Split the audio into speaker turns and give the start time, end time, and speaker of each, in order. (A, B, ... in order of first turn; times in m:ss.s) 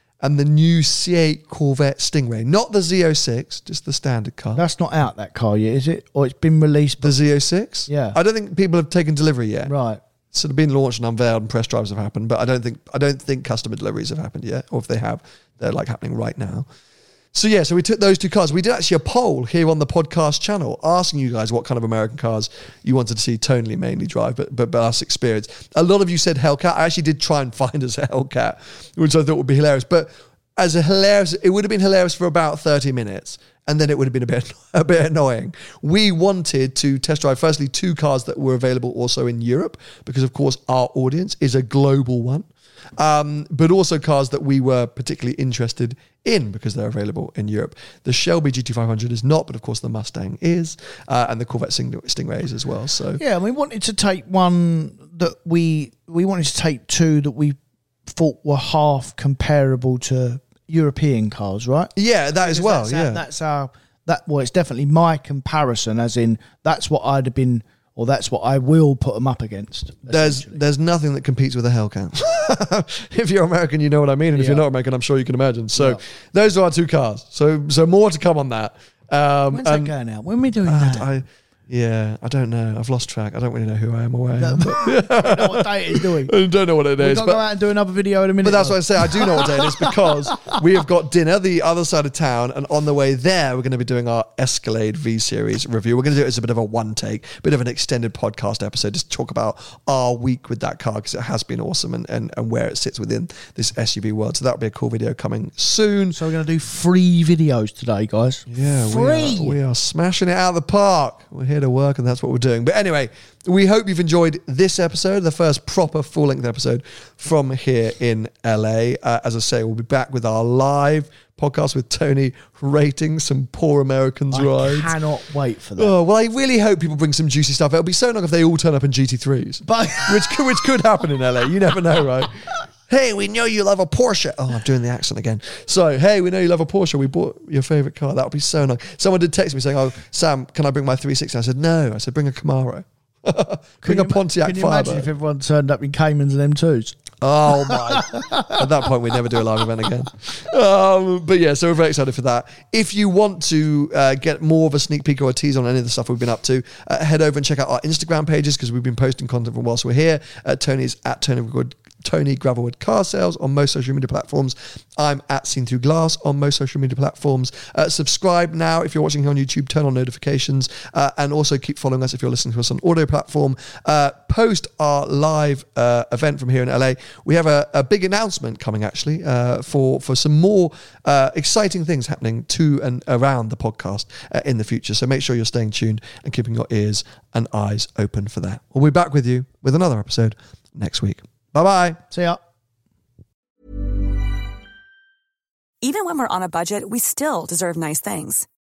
0:00.2-0:04.6 A
0:04.5-0:07.2 B
0:07.0-0:09.7 A
0:07.9-0:08.2 B
0:09.6-0:10.0 B
0:10.3-0:16.7 A
0:17.3-0:53.2 A
0:53.2-1:10.6 B
1:02.0-1:03.2 A
1:10.1-1:19.9 A
1:14.3-1:14.6 B
1:15.8-1:16.0 B
1:19.5-1:21.1 B
1:20.6-1:27.4 A
1:24.4-1:26.3 B
1:27.0-1:30.6 B
1:28.4-1:46.2 A
1:46.1-1:49.6 B
1:48.5-2:05.0 A
2:04.3-2:05.9 B
2:05.8-2:12.3 A
2:09.7-2:10.5 B
2:12.9-2:25.1 A
2:23.8-2:27.0 B
2:27.2-3:12.0 A
2:27.5-2:28.9 B
3:12.1-3:12.4 B
3:15.8-3:18.5 C